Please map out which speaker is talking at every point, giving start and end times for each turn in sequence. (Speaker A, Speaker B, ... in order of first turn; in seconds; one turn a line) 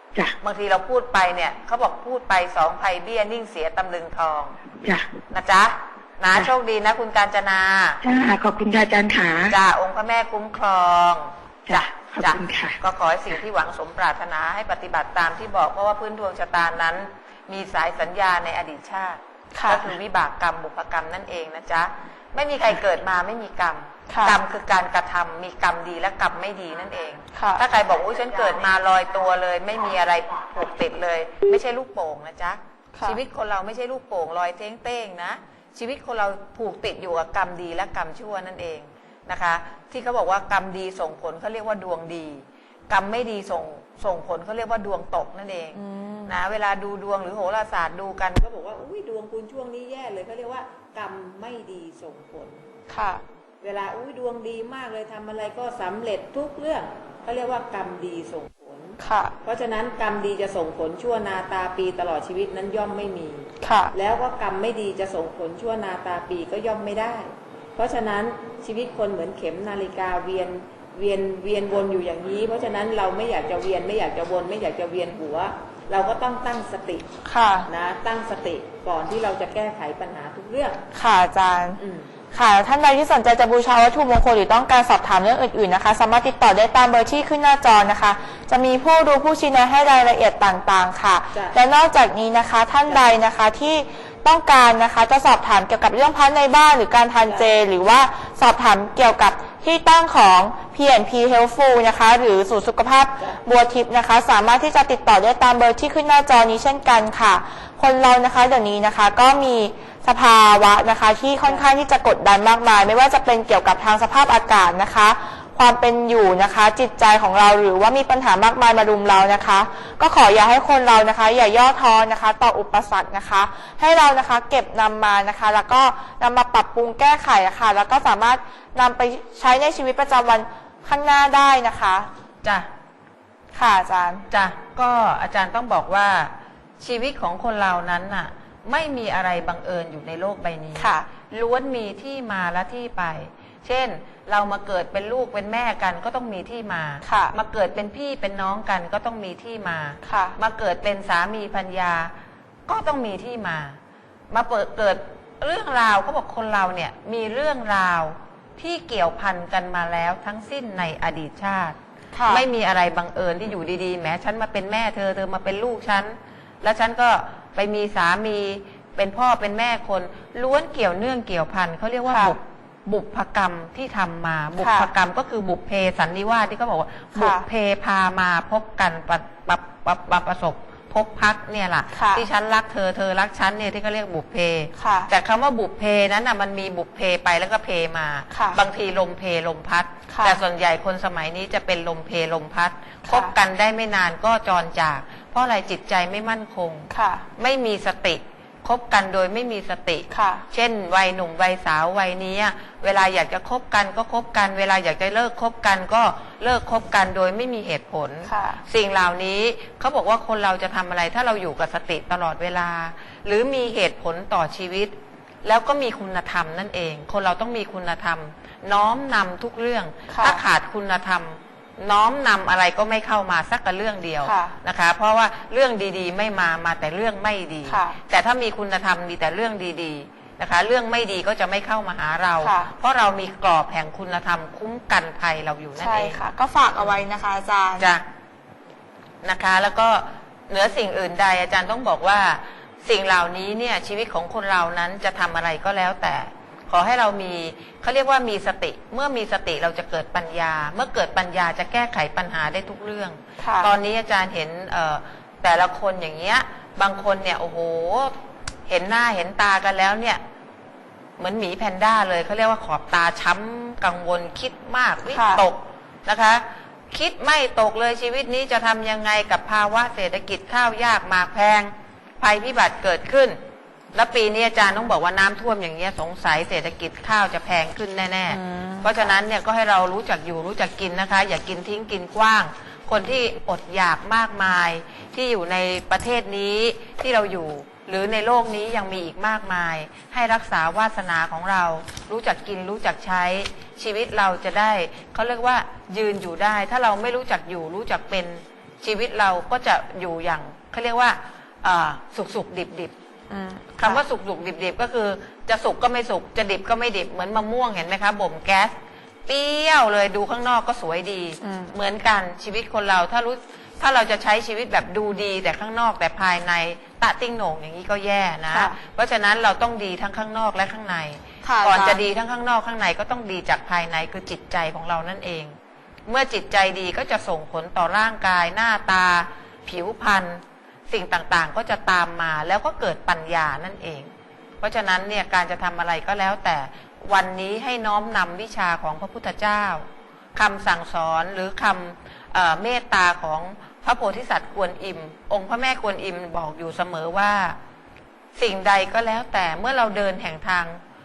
Speaker A: 0.4-4.5
Speaker A: 5.3-8.0
Speaker B: 8.0-9.5
Speaker A: 9.5-52.6
Speaker B: 11.7-12.8
Speaker C: 19.5-19.9
Speaker C: 24.1-24.4
Speaker C: 27.3-27.6
Speaker C: 45.7-46.3
Speaker C: 52.9-53.2
Speaker A: 53.6-77.0
Speaker C: 59.0-59.3
Speaker C: 63.6-63.9
Speaker C: 77.2-77.7
Speaker A: 77.7-80.8
Speaker C: 80.9-81.8
Speaker A: 81.8-82.1
Speaker C: 82.3-132.1
Speaker A: 91.3-91.6
Speaker A: 92.8-93.1
Speaker A: 97.2-97.6
Speaker A: 111.4-111.7
Speaker A: 132.4-132.7
Speaker C: 133.5-134.2
Speaker A: 134.3-152.1
Speaker C: 140.7-141.1
Speaker C: 147.0-147.3
Speaker C: 150.0-150.3
Speaker A: 152.7-153.8
Speaker A: 154.3-161.8
Speaker C: 162.1-162.4
Speaker A: 162.3-236.2
Speaker C: 172.1-172.3
Speaker C: 174.6-174.9
Speaker C: 177.1-177.4
Speaker C: 181.9-182.2
Speaker C: 184.8-185.1
Speaker C: 188.3-188.6
Speaker C: 190.1-190.4
Speaker C: 193.0-193.3
Speaker C: 196.9-197.2
Speaker C: 200.1-200.4
Speaker C: 208.2-208.6
Speaker C: 220.1-220.4
Speaker C: 224.2-224.5
Speaker C: 227.7-227.9
Speaker C: 232.4-232.7
Speaker C: 235.8-237.9
Speaker A: 236.7-237.0
Speaker A: 237.8-238.0
Speaker A: 239.2-258.1
Speaker C: 253.4-253.7
Speaker A: 258.7-260.2
Speaker A: 261.2-273.4
Speaker C: 265.1-265.4
Speaker A: 273.9-302.9
Speaker C: 278.3-278.9
Speaker C: 303.3-304.0
Speaker A: 303.8-308.7
Speaker A: 309.3-325.6
Speaker C: 311.4-311.8
Speaker C: 318.5-318.8
Speaker C: 321.4-322.0
Speaker A: 326.1-347.6
Speaker A: 348.4-350.8